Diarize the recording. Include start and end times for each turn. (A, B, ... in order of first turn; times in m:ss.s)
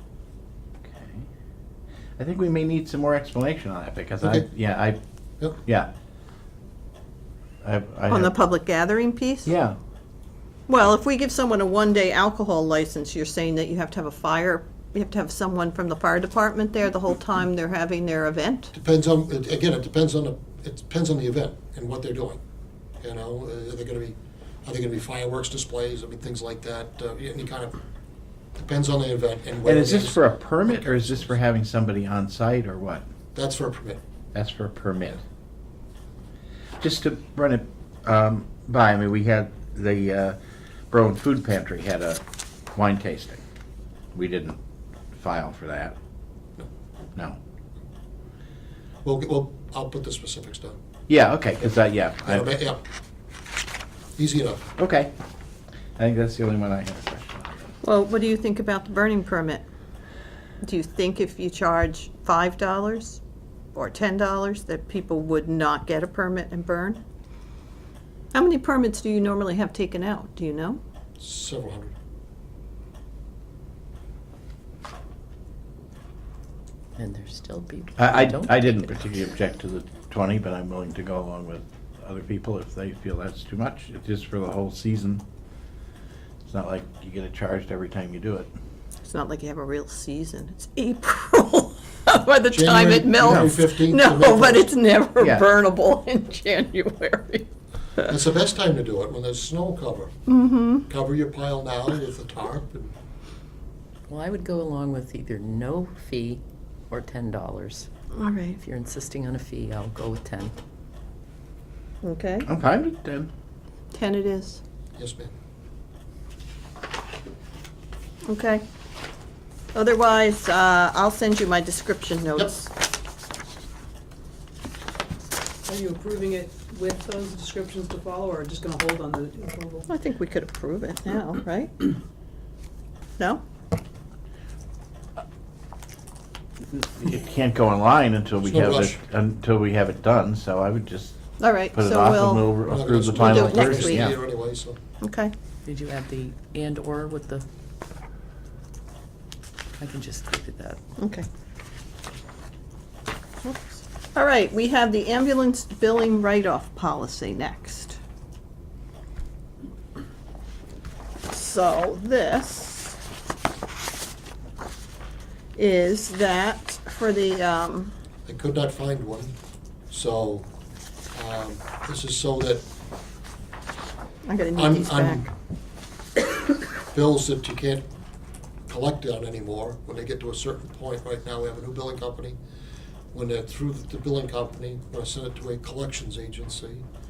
0:00.8-0:01.2 A
0:02.2-0:05.0 A
0:04.2-0:04.5 B
0:05.6-0:05.9 A
0:07.6-0:08.3 A
0:08.1-0:09.5 C
0:09.4-0:09.8 A
0:10.7-0:18.7 C
0:18.7-0:22.4 B
0:23.0-0:27.8 B
0:28.6-0:31.4 B
0:29.6-0:33.0 A
0:33.3-0:34.0 B
0:34.3-0:35.2 A
0:36.8-0:40.4 A
0:40.9-0:42.2 A
0:42.7-0:43.4 A
0:44.1-0:44.6 A
0:45.1-0:46.0 A
0:49.0-0:50.8 B
0:51.1-0:52.5 A
0:51.6-0:52.8 B
0:54.2-0:54.7 B
0:54.8-0:55.1 A
0:56.0-0:57.7 A
0:57.8-0:59.6 C
1:00.6-1:03.2 C
1:03.7-1:07.0 C
1:08.3-1:10.8 C
1:11.2-1:11.9 B
1:17.0-1:18.9 D
1:18.0-1:25.2 A
1:26.4-1:28.5 A
1:29.0-1:37.5 C
1:32.5-1:34.7 B
1:33.2-1:33.6 A
1:35.2-1:35.5 A
1:38.1-1:40.1 B
1:40.3-1:40.9 C
1:40.9-1:42.9 B
1:44.1-1:47.9 D
1:48.1-1:48.6 C
1:48.6-1:50.5 D
1:52.0-1:52.4 C
1:52.4-1:53.3 A
1:53.9-1:54.6 C
1:55.0-1:55.3 B
1:58.2-1:58.6 C
1:59.7-2:02.7 C
2:05.6-2:09.9 E
2:09.9-2:11.8 C
2:16.7-2:21.2 A
2:18.4-2:19.0 B
2:21.4-2:22.5 C
2:21.7-2:24.2 A
2:22.6-2:24.8 B
2:23.2-2:24.0 C
2:25.0-2:25.3 C
2:25.6-2:27.5 D
2:29.8-2:30.8 D
2:31.0-2:31.3 C
2:33.4-2:38.0 C
2:41.3-2:43.0 C
2:45.6-2:47.9 C
2:48.3-2:49.3 B
2:49.9-2:50.5 B
2:51.1-2:52.6 B
2:54.2-2:55.3 C
2:54.6-2:55.3 B
2:56.9-2:57.8 B
2:58.7-3:02.4 B
3:03.1-3:06.8 B